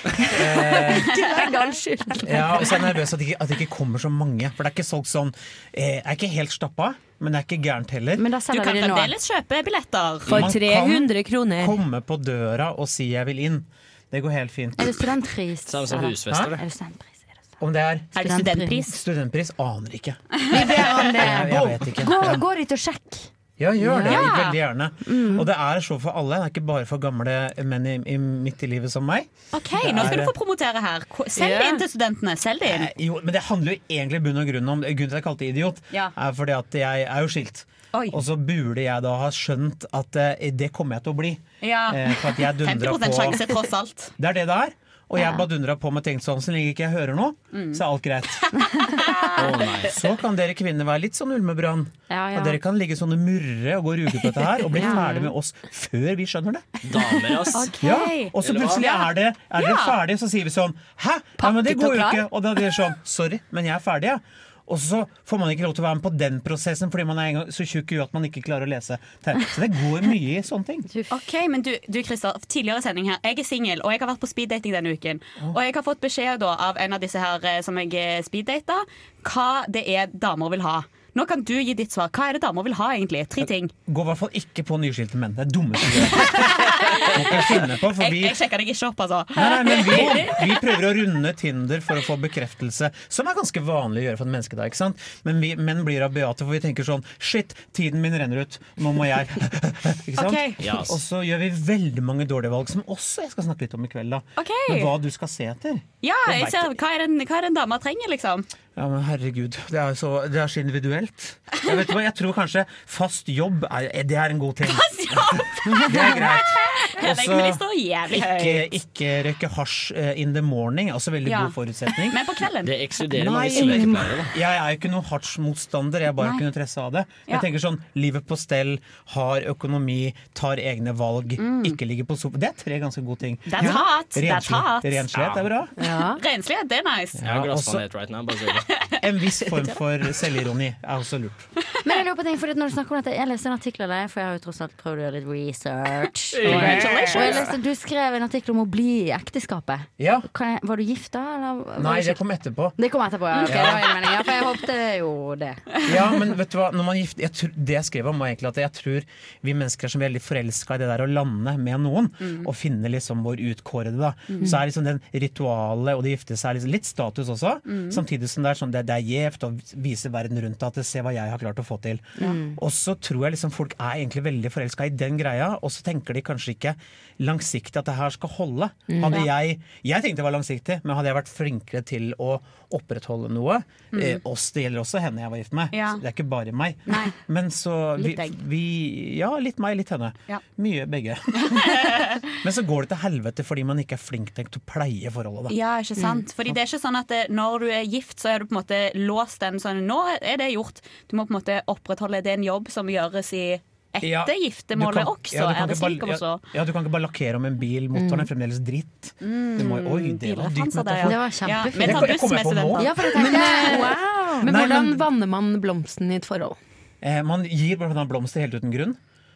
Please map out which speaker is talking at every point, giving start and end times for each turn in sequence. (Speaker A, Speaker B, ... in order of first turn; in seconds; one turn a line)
Speaker A: 0.2-1.1
Speaker B: 0.5-2.8
Speaker C: 1.4-1.8
Speaker A: 2.2-8.3
Speaker C: 8.2-9.2
Speaker D: 8.5-10.5
Speaker A: 10.3-15.1
Speaker B: 10.3-11.8
Speaker C: 14.8-17.4
Speaker E: 15.7-16.6
Speaker A: 16.2-16.5
Speaker A: 17.6-18.2
Speaker D: 18.1-18.9
Speaker C: 18.2-18.9
Speaker A: 18.9-22.4
Speaker C: 20.5-23.3
Speaker A: 23.6-30.3
Speaker B: 23.8-24.2
Speaker D: 24.1-24.6
Speaker C: 25.1-25.4
Speaker D: 29.5-32.9
Speaker B: 31.4-31.8
Speaker A: 32.6-43.4
Speaker D: 37.9-38.2
Speaker D: 41.6-44.1
Speaker A: 44.2-48.5
Speaker D: 47.5-47.8
Speaker D: 48.6-49.5
Speaker E: 49.4-49.9
Speaker A: 49.9-56.7
Speaker C: 52.1-52.6
Speaker C: 54.8-55.3
Speaker D: 54.8-55.3
Speaker E: 56.8-57.8
Speaker D: 57.5-60.0
Speaker A: 57.8-70.9
Speaker E: 58.4-58.9
Speaker B: 61.4-62.3
Speaker D: 71.1-83.7
Speaker A: 83.9-88.4
Speaker D: 86.3-90.6
Speaker A: 89.3-106.7
Speaker D: 100.2-100.8
Speaker E: 100.6-101.0
Speaker D: 104.4-104.9
Speaker D: 106.0-108.5
Speaker A: 108.8-122.2
Speaker D: 114.7-118.8
Speaker D: 121.2-122.7
Speaker E: 122.6-124.3
Speaker A: 123.1-135.7
Speaker D: 123.5-123.8
Speaker D: 131.4-131.8
Speaker D: 133.5-135.1
Speaker E: 135.2-135.5
Speaker B: 135.8-136.2
Speaker D: 136.2-137.2
Speaker A: 137.2-137.8
Speaker E: 137.2-138.7
Speaker A: 139.0-141.5
Speaker D: 139.5-139.8
Speaker C: 141.8-152.2
Speaker D: 146.4-147.5
Speaker E: 146.4-147.3
Speaker A: 146.5-146.8
Speaker A: 150.0-150.3
Speaker A: 151.8-152.8
Speaker C: 152.8-155.7
Speaker D: 153.3-153.7
Speaker A: 153.5-153.9
Speaker A: 155.8-195.6
Speaker D: 162.2-162.5
Speaker D: 164.3-164.6
Speaker D: 167.7-168.0
Speaker B: 178.9-179.2
Speaker D: 179.1-179.3
Speaker D: 183.9-184.2
Speaker D: 185.7-186.0
Speaker D: 186.9-187.2
Speaker D: 188.0-188.3
Speaker D: 191.7-192.1
Speaker D: 195.5-206.4
Speaker A: 204.0-211.2
Speaker B: 208.0-208.2
Speaker D: 209.2-213.6
Speaker C: 211.0-212.2
Speaker A: 211.8-213.0
Speaker C: 212.8-214.5
Speaker B: 213.1-216.6
Speaker A: 214.4-215.0
Speaker A: 217.0-219.0